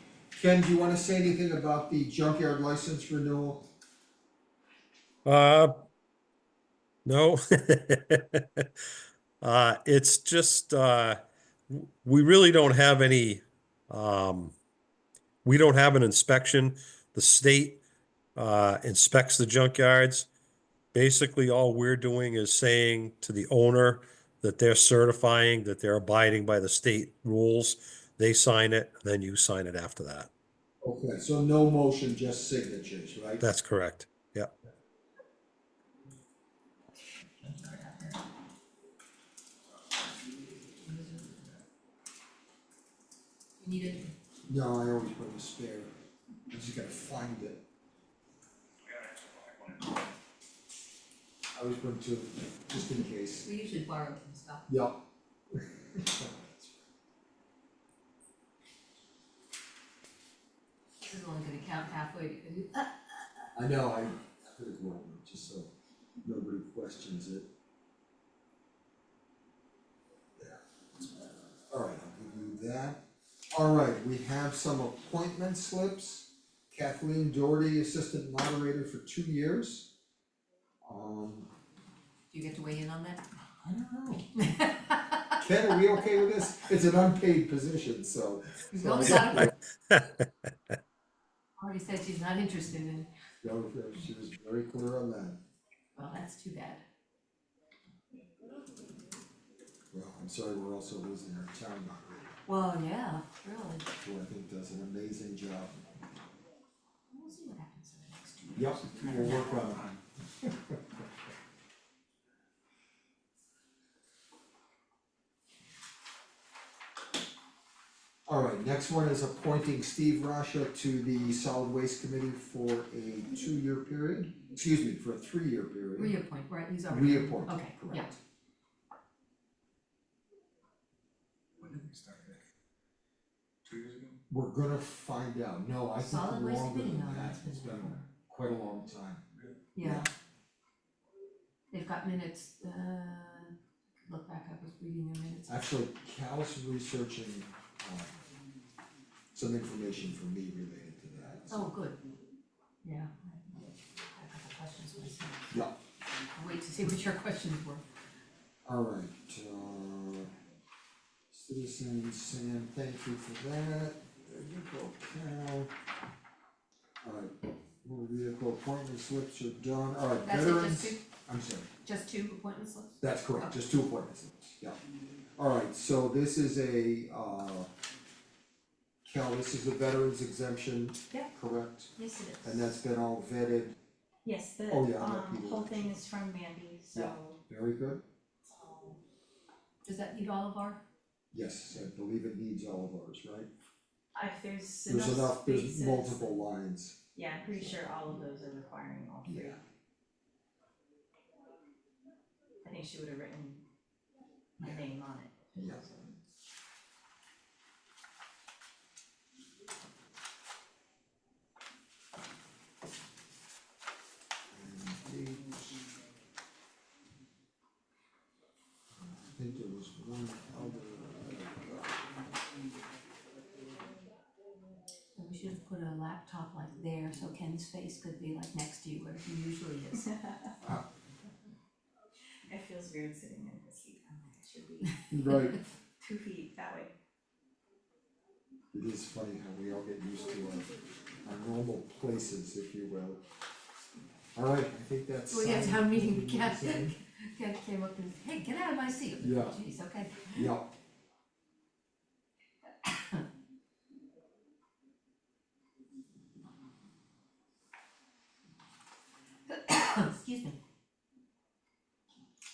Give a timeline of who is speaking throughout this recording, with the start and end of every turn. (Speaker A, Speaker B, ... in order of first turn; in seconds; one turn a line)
Speaker A: 0.3-3.6
Speaker B: 5.2-5.8
Speaker B: 7.0-8.7
Speaker B: 9.4-14.5
Speaker B: 15.4-17.8
Speaker B: 18.4-20.3
Speaker B: 20.9-30.3
Speaker A: 30.8-33.5
Speaker B: 33.4-34.5
Speaker C: 37.4-38.2
Speaker C: 40.8-41.5
Speaker C: 43.6-44.1
Speaker A: 44.5-45.9
Speaker A: 46.5-47.6
Speaker D: 49.0-49.7
Speaker A: 51.5-53.5
Speaker C: 53.4-54.6
Speaker A: 54.7-55.0
Speaker A: 55.5-56.8
Speaker C: 61.0-63.2
Speaker A: 63.5-65.7
Speaker A: 66.2-67.5
Speaker A: 70.4-73.0
Speaker A: 73.5-79.9
Speaker A: 80.8-81.5
Speaker C: 82.3-83.2
Speaker A: 83.6-84.3
Speaker C: 84.3-85.3
Speaker A: 85.4-89.5
Speaker C: 88.7-89.5
Speaker B: 89.9-90.7
Speaker C: 91.6-93.1
Speaker A: 93.4-95.4
Speaker C: 96.0-96.8
Speaker A: 99.9-102.4
Speaker C: 102.5-103.8
Speaker A: 104.0-105.9
Speaker C: 107.1-109.5
Speaker A: 108.5-109.8
Speaker D: 108.8-110.0
Speaker A: 110.4-110.8
Speaker A: 118.3-126.2
Speaker C: 126.0-128.1
Speaker A: 126.9-128.2
Speaker D: 131.6-132.4
Speaker D: 133.6-134.2
Speaker A: 134.3-139.2
Speaker C: 136.0-138.0
Speaker C: 139.7-140.1
Speaker A: 139.8-140.1
Speaker C: 141.7-145.6
Speaker A: 145.5-148.2
Speaker A: 149.3-151.7
Speaker C: 151.5-152.0
Speaker C: 152.8-153.1
Speaker C: 154.1-155.4
Speaker C: 156.3-157.8
Speaker A: 158.7-160.3
Speaker A: 161.3-165.7
Speaker A: 167.0-167.3
Speaker A: 167.8-171.7
Speaker C: 170.2-171.0
Speaker C: 171.8-173.5
Speaker A: 173.0-174.8
Speaker A: 175.4-177.7
Speaker A: 179.0-181.9
Speaker C: 182.0-182.7
Speaker A: 182.4-183.7
Speaker E: 184.2-187.4
Speaker A: 184.7-185.9
Speaker A: 186.9-188.0
Speaker E: 188.5-189.0
Speaker C: 189.8-190.8
Speaker A: 191.3-193.5
Speaker E: 194.1-196.3
Speaker A: 194.8-197.0
Speaker E: 197.1-199.6
Speaker A: 199.2-199.6
Speaker E: 202.6-203.6
Speaker E: 204.6-206.1
Speaker A: 205.6-205.8
Speaker A: 214.5-215.8
Speaker A: 219.0-222.2
Speaker C: 225.1-230.1
Speaker E: 230.1-230.3
Speaker E: 232.5-235.0
Speaker A: 235.1-235.6
Speaker E: 236.0-236.9
Speaker A: 238.7-240.7
Speaker A: 241.2-243.2
Speaker A: 244.3-247.0
Speaker C: 245.3-250.5
Speaker A: 249.2-249.6
Speaker A: 250.3-250.7
Speaker C: 252.8-253.2
Speaker C: 259.5-260.6